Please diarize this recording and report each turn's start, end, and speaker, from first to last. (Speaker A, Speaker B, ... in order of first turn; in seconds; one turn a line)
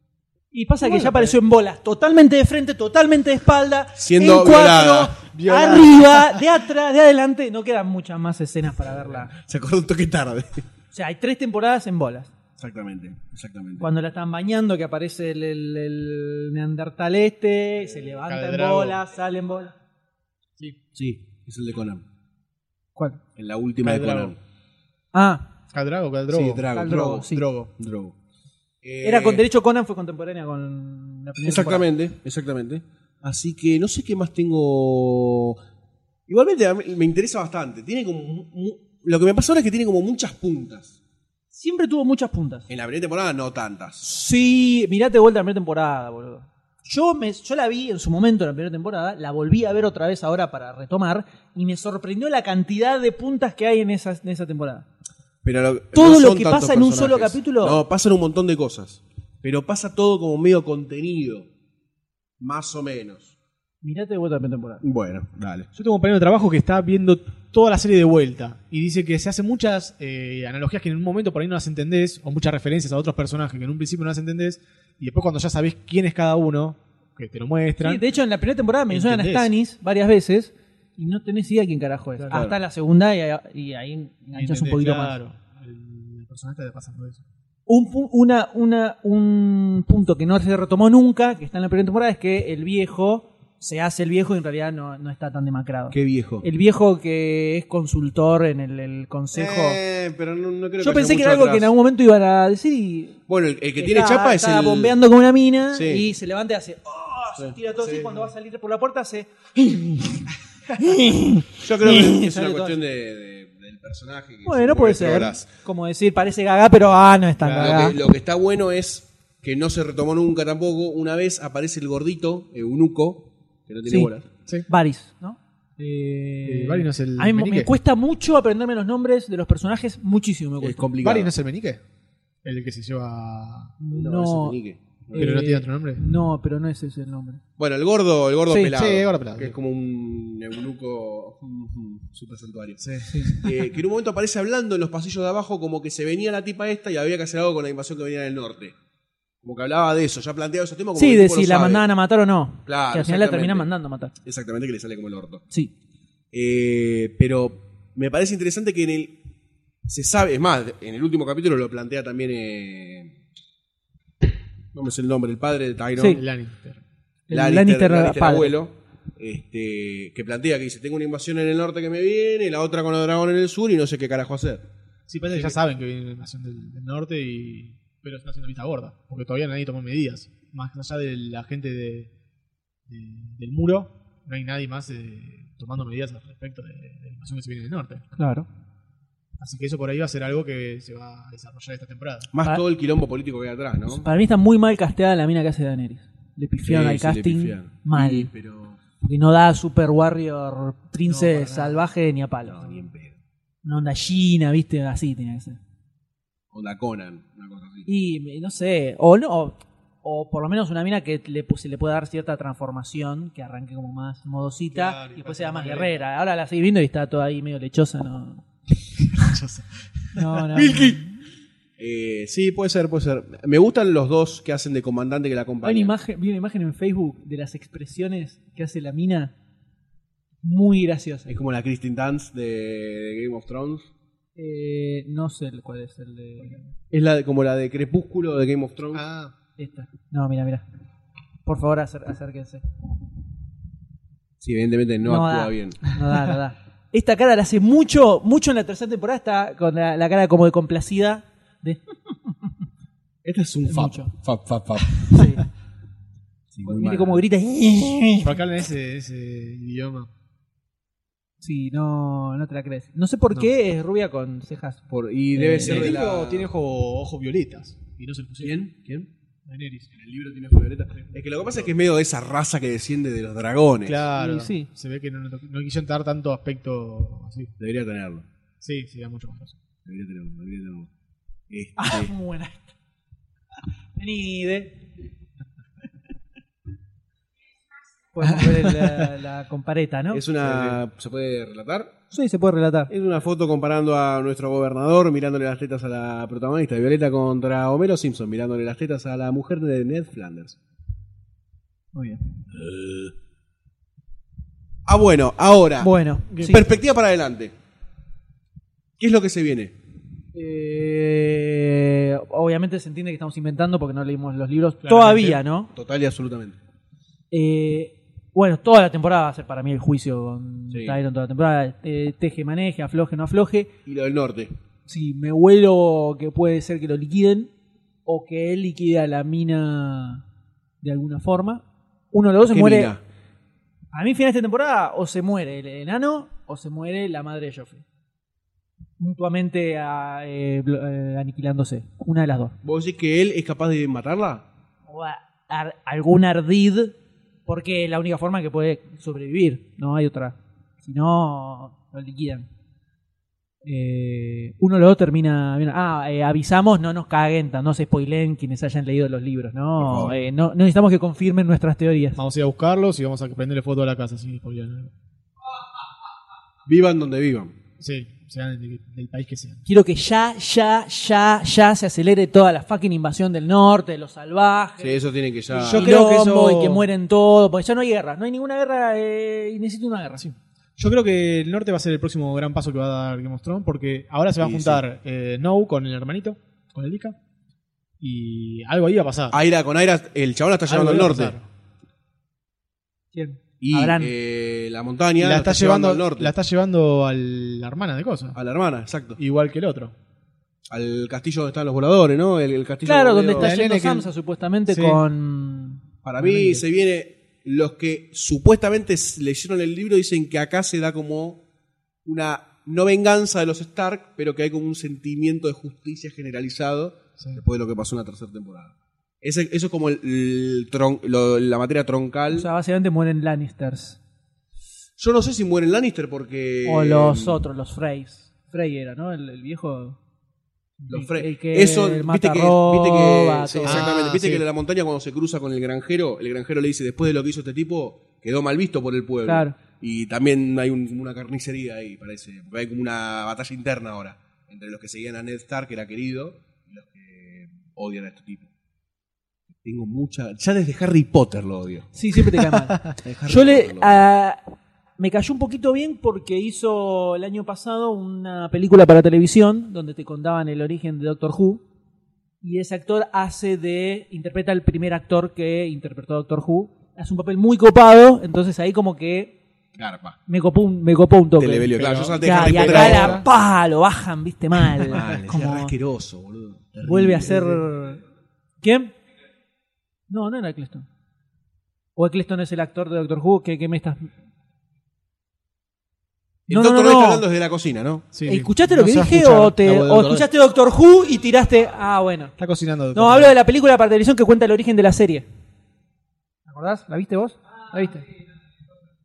Speaker A: 0.5-9.3
Speaker B: 0.9-1.3
Speaker B: 4.0-6.1
Speaker B: 9.3-10.6
Speaker A: 10.9-12.3
Speaker B: 12.6-13.9
Speaker A: 13.8-19.7
Speaker C: 18.2-19.0
Speaker B: 20.9-22.0
Speaker B: 23.4-24.4
Speaker C: 23.8-24.3
Speaker A: 25.1-25.4
Speaker C: 25.7-27.7
Speaker B: 26.3-28.1
Speaker A: 26.7-27.5
Speaker B: 28.8-29.4
Speaker A: 29.0-31.9
Speaker B: 31.4-35.6
Speaker B: 36.3-41.0
Speaker A: 41.5-42.7
Speaker B: 42.7-44.0
Speaker A: 44.0-54.9
Speaker B: 55.4-61.5
Speaker A: 55.9-57.8
Speaker B: 62.4-63.3
Speaker A: 63.8-64.8
Speaker B: 64.8-65.7
Speaker C: 65.7-78.0
Speaker A: 77.8-85.2
Speaker C: 78.9-79.5
Speaker C: 82.2-82.5
Speaker B: 82.3-82.6
Speaker C: 84.3-87.2
Speaker A: 87.7-99.8
Speaker B: 95.9-96.5
Speaker B: 99.3-101.7
Speaker A: 100.8-103.2
Speaker B: 103.3-105.0
Speaker A: 103.8-110.1
Speaker B: 105.7-106.1
Speaker B: 107.4-108.3
Speaker A: 110.8-112.8
Speaker B: 111.6-115.5
Speaker A: 114.4-118.0
Speaker C: 117.4-117.9
Speaker B: 117.6-124.3
Speaker A: 124.7-130.9
Speaker C: 126.4-127.7
Speaker B: 130.6-131.3
Speaker C: 131.0-131.8
Speaker C: 132.4-133.7
Speaker A: 133.8-134.6
Speaker B: 133.9-135.4
Speaker A: 135.1-137.4
Speaker C: 135.1-136.0
Speaker B: 137.6-142.8
Speaker C: 138.6-139.6
Speaker C: 142.8-143.5
Speaker A: 143.1-143.4
Speaker B: 143.4-148.7
Speaker B: 149.4-151.8
Speaker A: 150.9-154.1
Speaker B: 152.7-153.7
Speaker B: 154.2-155.4
Speaker B: 156.3-159.2
Speaker B: 159.9-163.1
Speaker B: 164.7-166.2
Speaker A: 166.0-166.2
Speaker C: 166.0-166.8
Speaker A: 167.3-168.6
Speaker B: 167.3-174.7
Speaker C: 175.1-182.1
Speaker C: 182.9-188.0
Speaker A: 188.1-188.5
Speaker C: 189.4-192.3
Speaker B: 192.3-194.1
Speaker A: 193.9-198.3
Speaker B: 196.6-198.8
Speaker A: 199.0-202.7
Speaker C: 201.1-201.9
Speaker B: 202.4-203.2
Speaker A: 203.6-205.6
Speaker B: 206.5-207.9
Speaker A: 207.9-218.4
Speaker C: 214.7-215.9
Speaker C: 219.1-220.7
Speaker A: 220.1-221.2
Speaker B: 221.8-225.9
Speaker A: 225.6-229.3
Speaker A: 230.4-231.4
Speaker B: 231.3-233.9
Speaker A: 234.4-236.7
Speaker B: 236.9-239.1
Speaker C: 238.9-239.3
Speaker A: 239.6-240.6
Speaker A: 241.4-242.6
Speaker B: 244.4-245.9
Speaker A: 245.0-251.8
Speaker B: 253.2-255.2
Speaker A: 253.7-254.1
Speaker A: 255.0-255.4
Speaker B: 256.5-257.2
Speaker A: 256.6-258.4
Speaker C: 258.2-260.1
Speaker A: 261.4-266.0
Speaker B: 264.9-266.5
Speaker C: 265.6-268.6
Speaker B: 268.4-269.1
Speaker C: 269.4-269.9
Speaker B: 269.9-274.1
Speaker C: 273.9-277.5
Speaker A: 274.1-274.7
Speaker B: 277.6-278.2
Speaker C: 278.6-279.6
Speaker B: 279.9-280.9
Speaker B: 281.5-282.1
Speaker A: 281.8-282.7
Speaker A: 284.0-284.7
Speaker A: 288.1-290.2
Speaker B: 290.1-292.0
Speaker C: 290.4-290.8
Speaker A: 292.1-292.9
Speaker B: 292.9-300.6
Speaker A: 301.9-302.2
Speaker B: 302.6-303.1
Speaker B: 304.9-307.5
Speaker A: 305.8-306.7
Speaker C: 306.3-306.6
Speaker B: 309.0-309.7
Speaker A: 310.3-315.7
Speaker C: 314.8-315.4
Speaker B: 315.7-316.6
Speaker A: 317.3-323.7
Speaker B: 320.7-321.0
Speaker B: 323.9-324.6
Speaker A: 324.9-327.5
Speaker A: 328.1-330.2
Speaker A: 330.8-332.9
Speaker B: 332.5-333.0
Speaker A: 333.9-337.8
Speaker A: 339.0-342.6
Speaker B: 342.6-344.4
Speaker A: 344.9-346.9
Speaker A: 347.4-352.5
Speaker A: 353.6-362.2
Speaker B: 359.8-360.1
Speaker C: 362.1-364.9
Speaker B: 366.6-367.6
Speaker C: 367.8-369.6
Speaker A: 369.6-375.0
Speaker B: 374.8-375.9
Speaker C: 375.5-376.9
Speaker A: 375.7-380.3
Speaker C: 380.2-387.1
Speaker B: 384.4-384.8
Speaker C: 388.0-389.4
Speaker B: 389.3-391.4
Speaker C: 390.7-391.5
Speaker A: 393.1-394.1
Speaker B: 393.6-396.3
Speaker C: 395.2-398.4
Speaker B: 398.3-399.2
Speaker C: 399.2-399.9
Speaker B: 400.7-403.6
Speaker A: 402.9-405.8
Speaker C: 403.4-404.1
Speaker C: 404.7-405.0
Speaker B: 406.0-411.4
Speaker C: 406.2-406.6
Speaker B: 412.1-422.5
Speaker A: 422.3-424.0
Speaker B: 425.0-427.4
Speaker A: 426.6-430.0
Speaker B: 430.9-448.5
Speaker A: 430.9-433.9
Speaker C: 433.6-434.4
Speaker A: 439.2-439.6
Speaker B: 449.6-451.9
Speaker A: 451.9-454.4
Speaker B: 453.0-454.0
Speaker A: 455.0-461.6
Speaker A: 462.4-469.4
Speaker B: 469.8-470.2
Speaker A: 470.3-475.7
Speaker B: 471.4-473.2
Speaker C: 471.7-473.3
Speaker B: 474.9-477.6
Speaker A: 476.8-478.0
Speaker A: 478.6-478.9
Speaker A: 480.1-480.9
Speaker A: 481.9-484.1
Speaker B: 486.5-488.1
Speaker A: 486.5-487.2
Speaker C: 488.1-490.3
Speaker A: 488.2-492.3
Speaker C: 492.4-493.4
Speaker A: 492.9-495.3
Speaker A: 496.5-498.1